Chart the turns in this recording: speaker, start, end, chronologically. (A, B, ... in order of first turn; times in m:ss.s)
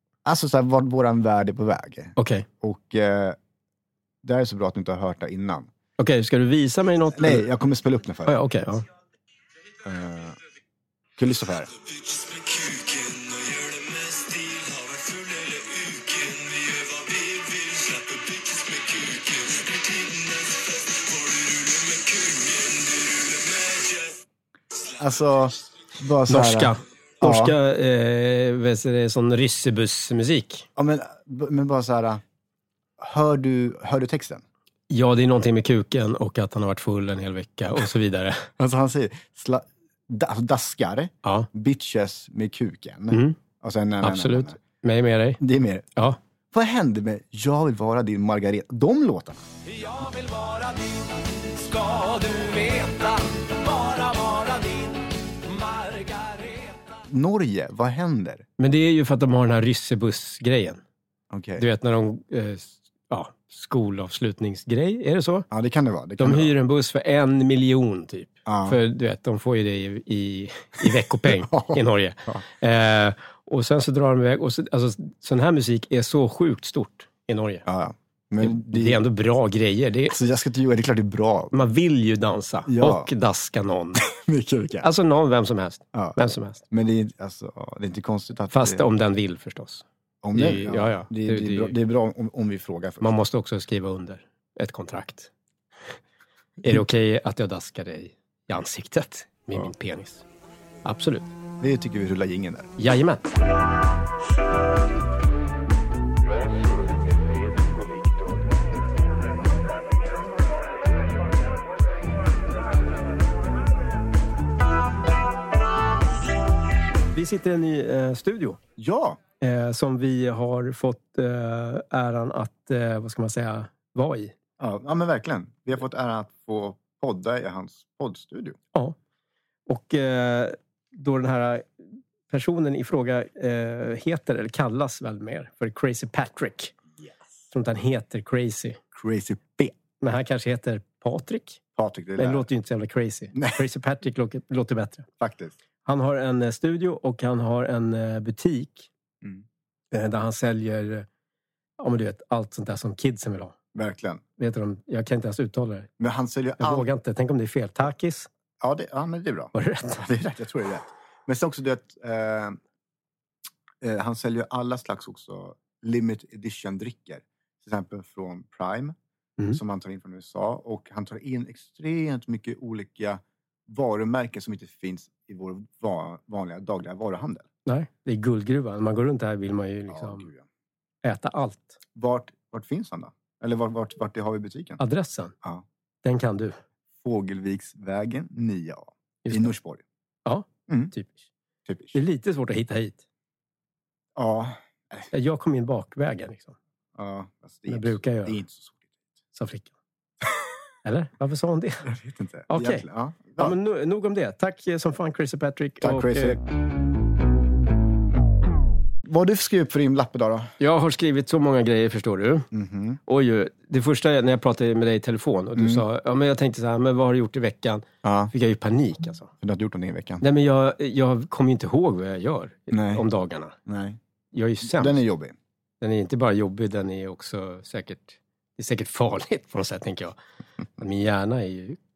0:00.2-0:03.4 A
0:02.2-0:02.5 B
0:04.2-0:05.7 A
0:06.0-0:07.5 B
0:07.2-0:08.4 A
0:08.3-0:08.8 B
0:09.8-0:10.4 A
0:11.2-0:11.7 A
0:12.2-0:24.1 C
0:24.9-0:27.6 A
0:26.3-0:30.7 B
0:30.8-0:32.2 A
0:33.0-0:34.4 A
0:34.9-0:38.5 B
0:38.6-0:44.6 A
0:43.1-0:43.4 B
0:44.0-0:45.4 B
0:45.4-0:45.9 A
0:46.5-0:49.4 A
0:49.7-0:57.0 C
0:57.1-0:58.4 A
0:58.6-1:00.8 B
1:01.3-1:01.6 A
1:01.6-1:05.5 B
1:05.5-1:06.6 A
1:06.2-1:17.6 B
1:08.5-1:08.8 A
1:11.4-1:12.4 A
1:17.6-1:19.0 A
1:18.4-1:20.2 B
1:20.1-1:21.5 A
1:21.5-1:24.0 B
1:22.7-1:23.1 A
1:24.0-1:24.9 A
1:24.8-1:26.6 B
1:26.7-1:28.8 A
1:28.5-1:31.8 B
1:30.2-1:33.2 A
1:33.0-1:35.3 B
1:36.6-1:40.2 B
1:40.8-1:41.3 B
1:41.6-1:42.7 A
1:42.8-1:43.4 B
1:57.1-1:58.6 B
1:58.8-1:59.2 A
1:59.4-2:04.4 B
2:04.6-2:08.6 A
2:09.7-2:11.7 B
2:12.3-2:16.8 B
2:17.5-2:18.8 B
2:19.0-2:19.7 A
2:20.0-2:21.6 B
2:21.8-2:22.5 A
2:22.2-2:25.1 B
2:23.3-2:23.6 A
2:25.2-2:25.6 A
2:25.9-2:28.9 B
2:29.9-2:31.1 B
2:31.8-2:33.6 B
2:33.7-2:34.2 A
2:34.4-2:35.9 B
2:36.0-2:36.9 A
2:36.6-2:38.3 B
2:38.6-2:42.6 A
2:39.5-2:40.1 B
2:43.8-2:49.0 A
2:49.5-2:57.5 A
2:57.7-3:00.3 B
2:59.9-3:00.4 A
3:01.0-3:01.8 B
3:02.0-3:04.8 A
3:04.8-3:05.4 B
3:06.0-3:06.6 B
3:07.0-3:09.8 A
3:09.2-3:09.5 B
3:10.2-3:11.3 B
3:11.7-3:12.0 A
3:11.9-3:13.0 B
3:14.2-3:15.1 A
3:15.1-3:16.6 B
3:17.0-3:18.8 A
3:17.7-3:18.4 B
3:19.3-3:19.7 B
3:20.8-3:21.9 B
3:21.8-3:23.6 A
3:22.5-3:22.8 B
3:23.4-3:26.4 B
3:25.8-3:26.4 A
3:29.0-3:30.6 A
3:30.6-3:32.5 B
3:32.5-3:33.0 A
3:33.1-3:39.3 B
3:35.6-3:35.8 A
3:38.0-3:38.3 A
3:39.4-3:40.2 A
3:40.2-3:43.6 B
3:42.7-3:43.0 A
3:43.7-3:44.0 A
3:44.3-3:45.0 B
3:44.6-3:45.4 A
3:45.8-3:50.2 B
3:50.8-3:51.8 B